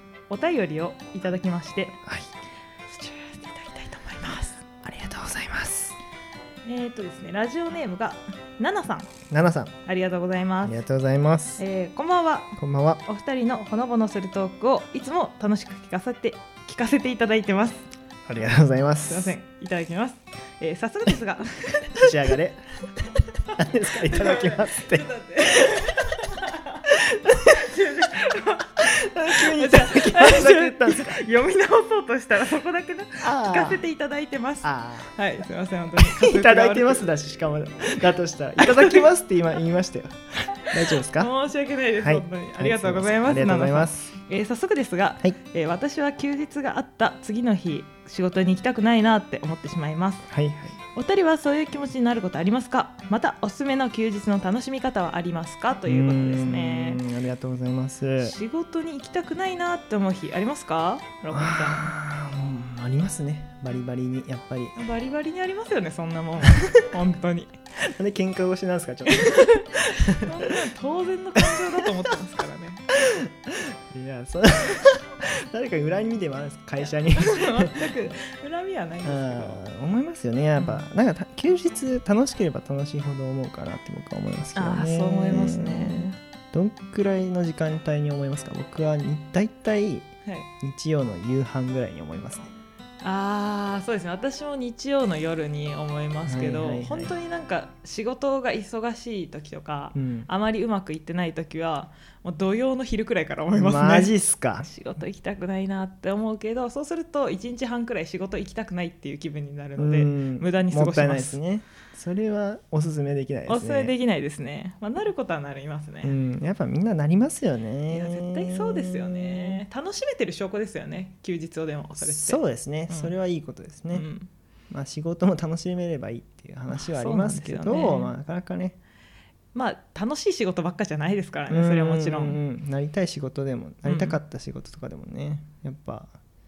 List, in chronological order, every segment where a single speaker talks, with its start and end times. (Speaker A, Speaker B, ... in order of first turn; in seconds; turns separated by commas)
Speaker A: 0.3-2.0, Speaker B: 2.0-2.3, Speaker A: 2.9-4.8, Speaker B: 4.7-6.0, Speaker A: 6.6-9.1, Speaker B: 9.3-9.7, Speaker A: 9.8-10.8, Speaker B: 10.6-11.6, Speaker A: 11.6-12.5, Speaker B: 12.6-13.0, Speaker A: 13.1-17.9, Speaker B: 18.2-19.4, Speaker A: 19.1-22.3, Speaker B: 21.9-22.6, Speaker B: 23.5-25.9, Speaker A: 24.0-37.1, Speaker B: 28.9-31.2, Speaker B: 33.2-33.8, Speaker B: 34.6-35.1, Speaker B: 36.0-41.3, Speaker A: 38.6-39.1, Speaker A: 41.1-50.3, Speaker B: 42.0-44.1, Speaker B: 50.3-50.8, Speaker A: 50.9-57.0, Speaker B: 55.9-58.3, Speaker A: 58.2-61.9, Speaker B: 61.3-64.8, Speaker A: 64.8-67.5, Speaker B: 66.5-66.8, Speaker B: 67.9-70.5, Speaker A: 69.1-72.8, Speaker B: 71.3-72.1, Speaker B: 73.2-77.9, Speaker A: 77.2-79.6, Speaker B: 79.0-92.5, Speaker A: 80.5-80.8, Speaker A: 84.5-86.2, Speaker A: 93.0-104.1, Speaker B: 96.2-97.1, Speaker B: 99.9-100.3, Speaker B: 103.5-104.7, Speaker A: 104.6-111.4, Speaker B: 109.8-113.9, Speaker A: 113.5-116.1, Speaker B: 116.0-119.6, Speaker A: 117.9-123.1, Speaker B: 122.0-124.1, Speaker A: 123.9-124.3, Speaker B: 124.7-128.8, Speaker A: 126.7-128.1, Speaker A: 129.5-132.4, Speaker B: 131.5-136.1, Speaker A: 133.8-134.2